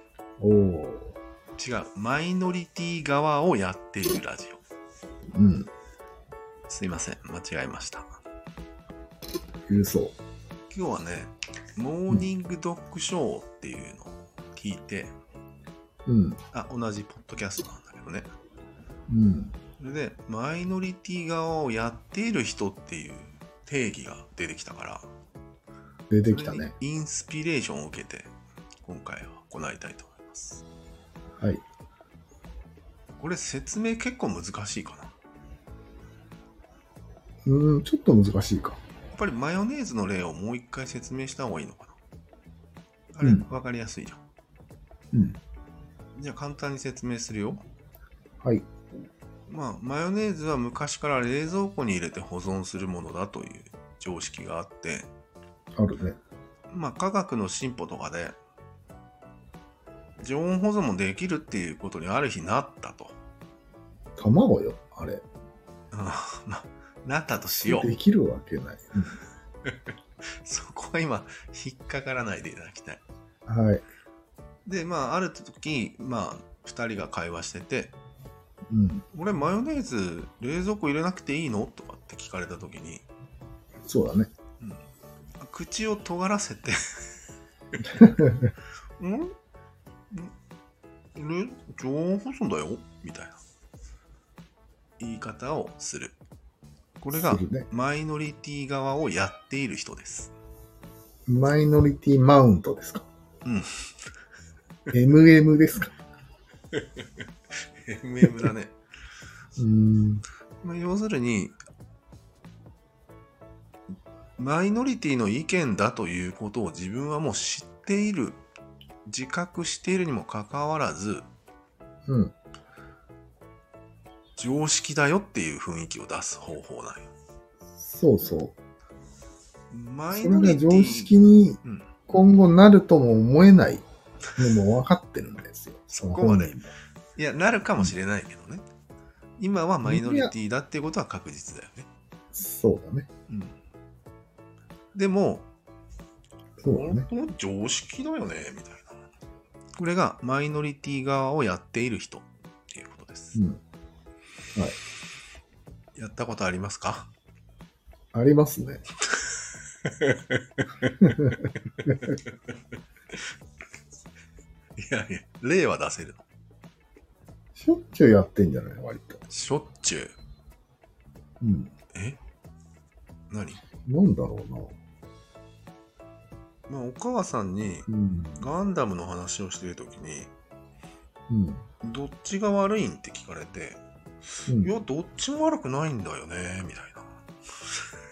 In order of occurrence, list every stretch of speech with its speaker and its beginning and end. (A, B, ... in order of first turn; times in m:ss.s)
0:00.4-0:01.2 A
0:01.6-0:04.6 B
0:05.3-0:05.7 A
0:06.7-0:08.1 B
0:09.7-0:10.2 A
0:10.7-0:15.1 B
0:16.0-0:16.4 A
0:16.5-0:18.3 B
0:19.1-0:19.5 A
0:19.8-0:25.1 B
0:26.1-0:26.7 A
0:26.3-0:28.3 B
0:28.8-0:30.6 B
0:33.2-0:35.1 B
0:37.4-0:38.8 A
0:39.1-0:42.0 B
0:43.1-0:44.2 B
0:46.2-0:47.6 B
0:49.5-0:55.1 B
0:55.8-0:56.2 A
0:56.7-0:58.4 B
1:00.2-1:03.1 B
1:04.2-1:05.2 A
1:05.9-1:07.9 B
1:07.6-1:09.2 A
1:09.6-1:13.0 B
1:13.5-1:13.8 A
1:14.6-1:17.9 B
1:18.7-1:19.0 A
1:19.1-1:23.0 B
1:23.9-1:24.3 A
1:25.4-1:26.8 B
1:28.0-1:28.5 A
1:29.0-1:29.3 B
1:31.1-1:33.4 B
1:35.0-1:36.2 B
1:37.0-1:40.3 B
1:37.1-1:37.7 A
1:41.3-1:43.0 A
1:44.9-1:45.9 A
1:46.7-1:47.1 B
1:47.8-1:48.7 B
1:49.6-1:50.2 A
1:50.6-1:51.5 B
1:54.4-1:58.4 B
1:59.0-2:01.3 B
2:02.1-2:02.3 A
2:04.4-2:07.1 B
2:07.8-2:08.5 A
2:09.7-2:11.1 B
2:10.1-2:13.8 A
2:11.6-2:11.9 B
2:14.4-2:16.7 A
2:15.9-2:16.5 B
2:17.2-2:18.6 B
2:19.4-2:21.9 B
2:19.8-2:20.3 A
2:22.3-2:23.1 A
2:23.3-2:23.6 B
2:24.9-2:25.5 B
2:26.6-2:27.1 A
2:26.6-2:29.0 B
2:29.8-2:33.4 B
2:33.3-2:33.6 A
2:36.0-2:37.1 B
2:38.1-2:38.8 A
2:39.8-2:40.9 B
2:41.0-2:41.9 A
2:42.1-2:42.3 B
2:44.8-2:46.2 B
2:47.5-2:49.2 A
2:49.3-2:50.1 B
2:51.4-2:51.7 A
2:51.9-2:52.2 B
2:53.3-2:53.6 B
2:53.8-2:54.7 A
2:56.7-2:57.9 B
2:57.9-2:58.4 A
2:58.4-3:00.3 B
3:01.3-3:01.6 A
3:01.8-3:03.8 B
3:04.5-3:04.8 A
3:04.5-3:07.1 B